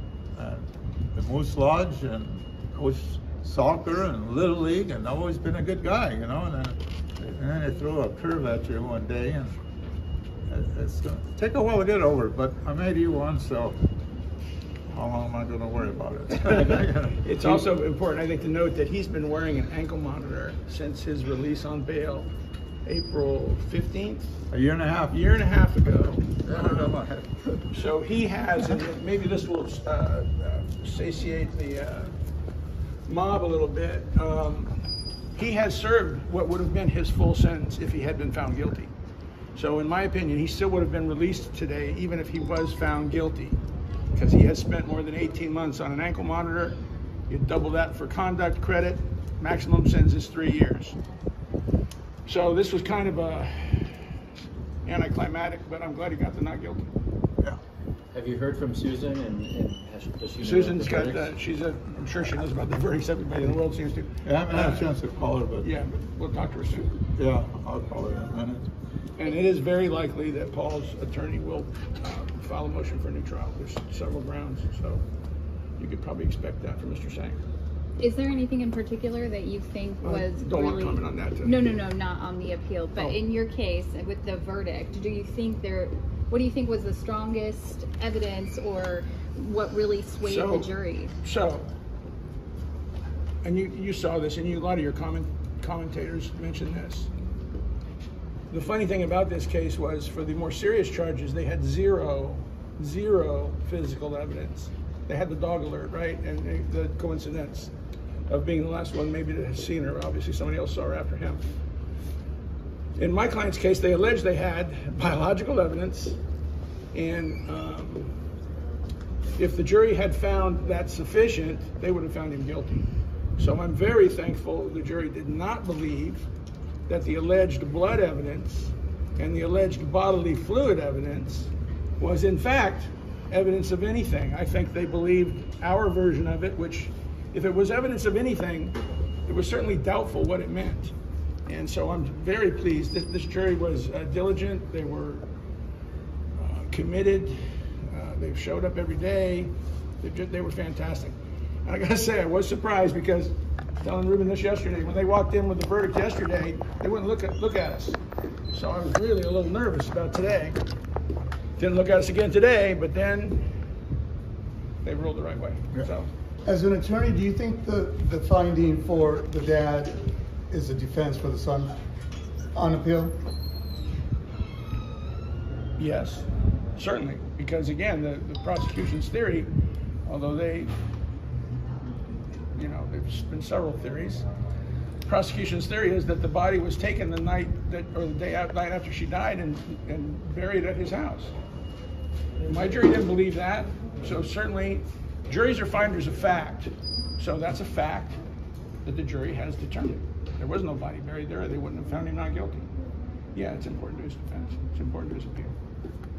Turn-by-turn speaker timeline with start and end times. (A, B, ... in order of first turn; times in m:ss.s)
0:00.4-0:09.6 A
0:10.5-0:13.8 A
0:14.9-0:17.6 A
0:17.2-0:22.3 B
0:22.8-0:24.3 B
0:24.5-0:25.2 A
0:25.1-0:27.0 B
0:26.4-0:27.7 A
0:27.7-0:32.1 B
0:33.1-0:34.8 B
0:35.3-0:38.9 B
0:39.5-0:43.6 B
0:44.1-0:51.0 B
0:52.2-0:54.0 B
0:54.8-0:56.8 B
0:58.1-1:01.2 C
1:00.4-1:04.9 B
1:04.2-1:05.7 A
1:05.6-1:06.9 B
1:07.2-1:08.7 A
1:09.2-1:15.0 B
1:15.8-1:17.4 B
1:18.0-1:31.1 D
1:20.0-1:21.8 B
1:22.9-1:23.2 B
1:30.2-1:31.7 B
1:33.4-1:37.1 B
1:38.5-1:47.7 B
1:48.3-1:51.4 B
1:53.0-1:56.2 B
1:56.9-1:58.1 B
1:59.4-2:02.8 B
2:03.4-2:06.3 B
2:06.9-2:20.9 B
2:21.4-2:25.3 B
2:26.4-2:38.0 B
2:38.5-2:40.6 B
2:41.6-2:43.5 B
2:44.8-2:46.1 B
2:46.4-2:51.7 E
2:52.5-2:53.2 E
2:55.8-2:59.5 B
3:00.0-3:00.7 B
3:02.5-3:04.2 B
3:05.0-3:11.3 B
3:12.4-3:18.2 B
3:18.8-3:22.7 B
3:23.3-3:25.5 B